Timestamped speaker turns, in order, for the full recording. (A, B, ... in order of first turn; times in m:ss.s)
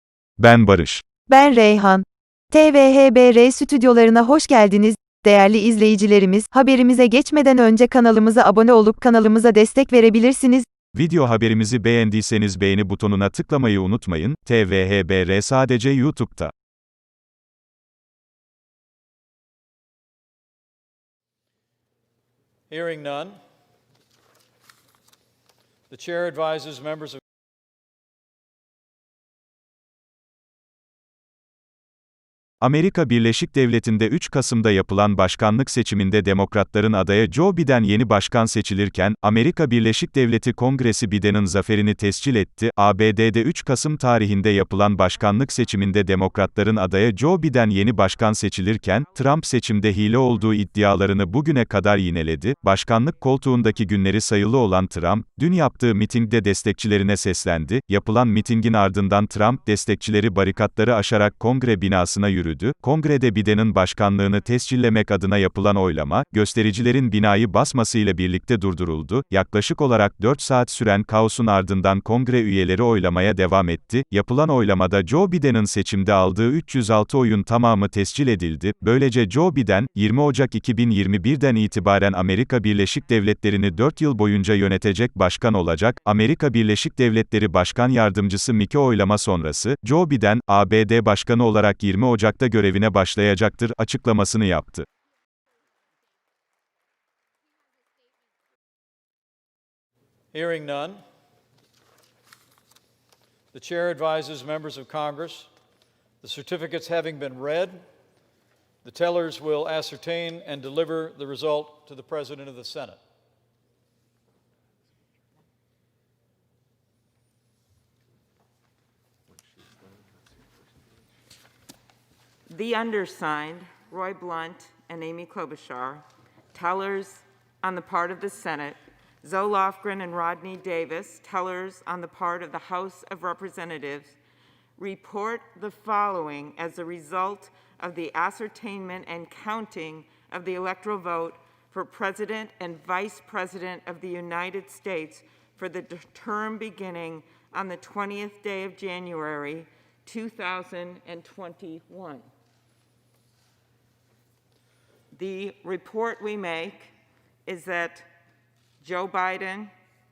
0:00.4-0:01.0 A
0:01.3-0:10.7 B
0:10.9-0:16.5 A
0:22.7-0:23.4 C
0:25.9-0:27.2 C
0:32.6-1:34.8 A
0:45.1-0:46.1 D
0:47.1-0:51.1 D
0:52.5-0:53.5 D
1:40.3-1:41.0 C
1:43.5-1:45.5 C
1:46.2-1:47.8 C
1:48.8-1:53.0 C
2:02.5-2:14.2 D
2:14.8-2:32.2 D
2:35.1-2:36.9 D
2:37.4-2:38.1 D
2:38.8-2:39.7 D